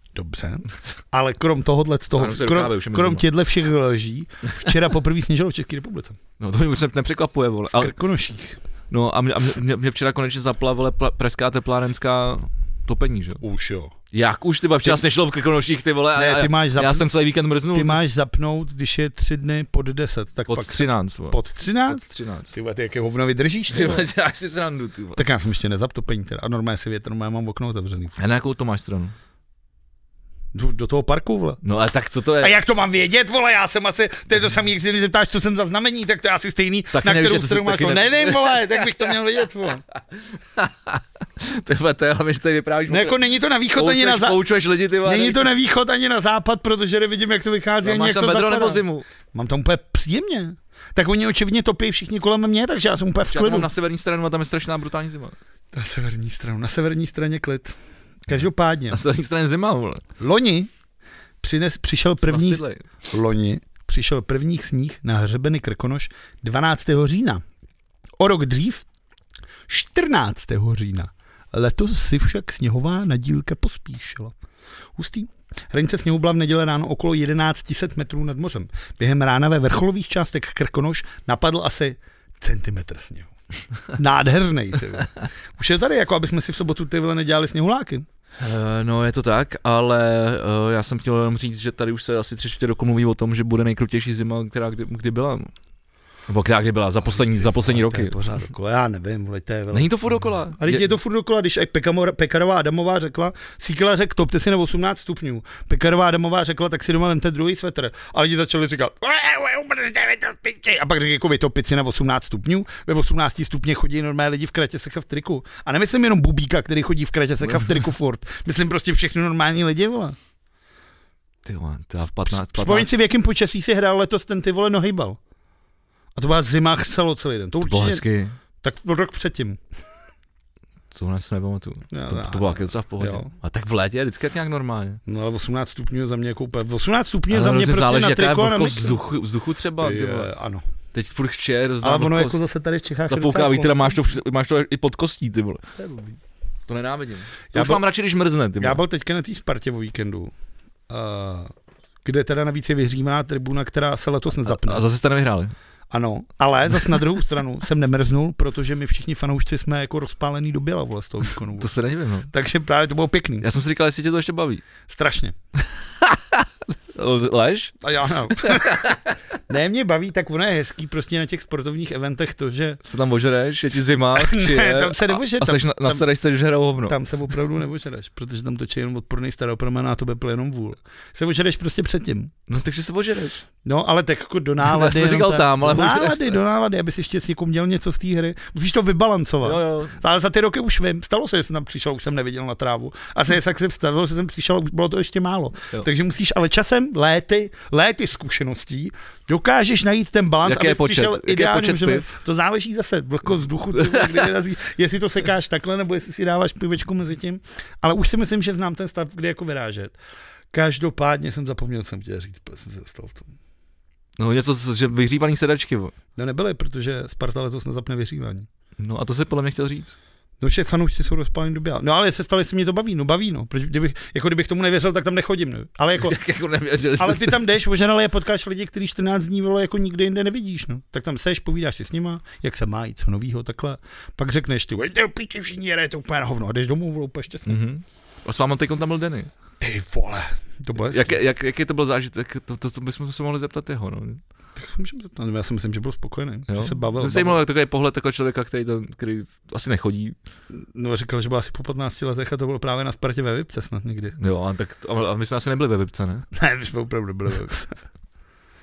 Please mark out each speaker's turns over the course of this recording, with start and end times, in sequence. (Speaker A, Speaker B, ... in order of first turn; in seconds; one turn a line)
Speaker A: 0.1-6.2
Speaker B: 2.1-3.2
Speaker B: 6.4-7.9
Speaker A: 7.8-8.6
Speaker B: 8.9-13.4
Speaker A: 13.4-13.9
Speaker B: 14.1-18.0
Speaker A: 16.2-17.1
Speaker A: 17.7-24.1
Speaker B: 20.5-22.5
Speaker B: 23.7-25.2
Speaker A: 25.2-28.2
Speaker B: 28.2-29.1
Speaker A: 30.5-31.6
Speaker B: 31.6-32.6
Speaker A: 32.4-39.8
Speaker B: 36.9-39.2
Speaker B: 40.0-43.2
Speaker A: 42.9-44.4
Speaker B: 43.7-45.5
Speaker A: 45.0-53.7
Speaker B: 47.8-49.1
Speaker B: 53.3-55.4
Speaker A: 55.7-57.8
Speaker A: 58.3-59.0
Speaker B: 58.9-60.0
Speaker A: 60.2-60.7
Speaker A: 61.4-67.4
Speaker B: 62.2-62.8
Speaker A: 68.2-68.9
Speaker A: 69.7-74.3
Speaker A: 75.0-83.3
Speaker A: 83.9-88.0
Speaker B: 88.4-95.5
Speaker B: 96.3-98.2
Speaker A: 97.0-99.9
Speaker B: 99.7-100.9
Speaker A: 100.6-120.2
Speaker B: 117.5-117.8
Speaker B: 121.5-122.9
Speaker A: 122.3-125.2
Speaker A: 126.2-128.0
Speaker B: 127.6-128.4
Speaker A: 128.6-129.6
Speaker B: 130.9-135.0
Speaker A: 131.9-133.3
Speaker A: 135.1-139.0
Speaker B: 137.3-140.3
Speaker A: 139.8-140.6
Speaker B: 140.9-142.4
Speaker A: 141.8-144.0
Speaker B: 143.1-145.6
Speaker A: 145.8-146.2
Speaker B: 146.7-148.8
Speaker A: 147.5-147.8
Speaker A: 148.6-150.3
Speaker A: 150.9-151.5
Speaker A: 152.1-154.8
Speaker B: 154.4-155.5
Speaker A: 155.9-161.7
Speaker B: 161.6-162.3
Speaker A: 162.3-163.5
Speaker B: 163.4-164.6
Speaker A: 164.9-165.3
Speaker B: 165.7-167.7
Speaker A: 167.8-172.8
Speaker B: 168.3-169.2
Speaker B: 172.8-177.0
Speaker A: 174.2-176.1
Speaker A: 176.9-182.3
Speaker B: 182.5-183.4
Speaker A: 183.6-210.0
Speaker B: 184.6-186.4
Speaker B: 189.4-190.0
Speaker B: 200.4-202.1
Speaker B: 203.8-204.2
Speaker A: 210.5-213.3
Speaker B: 214.2-215.9
Speaker A: 216.2-218.5
Speaker B: 218.8-220.0
Speaker A: 220.4-226.2
Speaker B: 226.0-227.4
Speaker A: 227.0-237.6
Speaker B: 237.5-239.3
Speaker A: 239.6-241.2
Speaker B: 240.8-244.2
Speaker A: 244.6-247.4
Speaker B: 246.5-250.2
Speaker A: 250.5-254.2
Speaker B: 254.2-256.3
Speaker A: 256.3-257.8